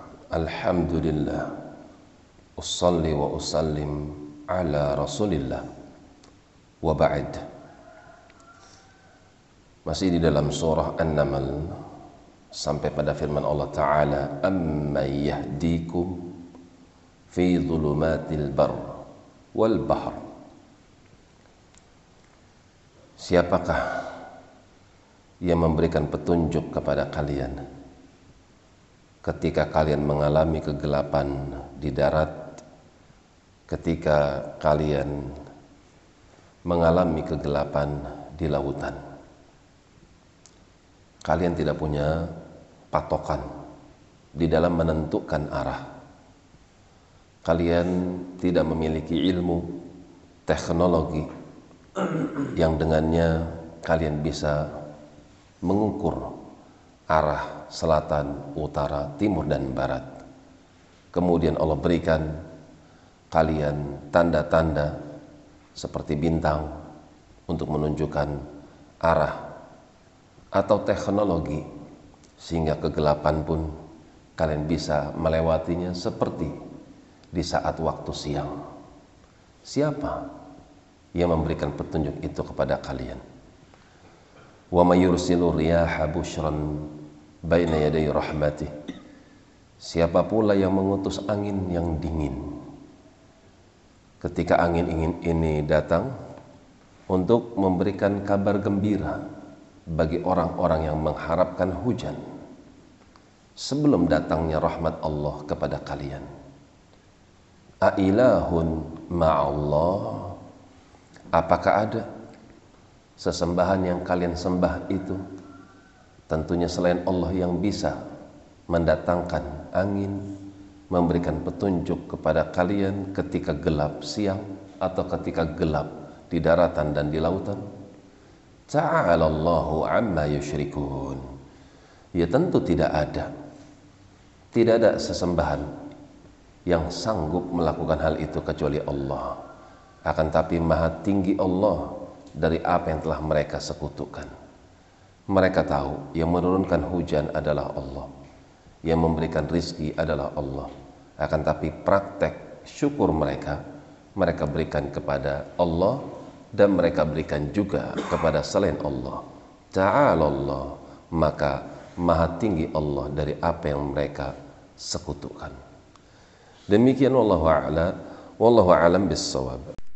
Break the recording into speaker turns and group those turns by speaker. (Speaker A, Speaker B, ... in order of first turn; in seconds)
Speaker A: 0.3-1.5, 2.6-5.6, 6.8-7.4, 9.8-11.8, 12.5-16.3, 17.3-19.0, 19.5-20.2, 23.2-24.1, 25.4-27.6, 29.2-32.6, 33.7-35.3, 36.6-39.0, 41.2-42.3, 42.9-43.5, 44.3-45.8, 47.4-49.7, 50.5-51.3, 52.4-54.6, 55.6-56.3, 57.1-60.0, 61.1-62.3, 63.3-64.9, 65.8-66.7, 67.5-68.4, 69.0-69.4, 70.5-71.6, 72.4-73.7, 74.4-76.5, 77.3-78.5, 79.7-80.2, 81.1-83.2, 84.7-86.9, 87.5-88.7, 89.8-92.5, 94.2-96.1, 97.1-99.2, 99.9-102.2, 103.6-106.2, 107.8-110.4, 111.3-112.0, 113.2-115.2, 116.3-118.0, 118.7-120.2, 120.9-127.6, 128.7-131.2, 132.2-133.3, 134.5-135.7, 136.7-139.4, 140.1-144.3, 145.3-148.1, 148.8-153.6, 154.2-156.0, 156.5-165.6, 166.7-169.7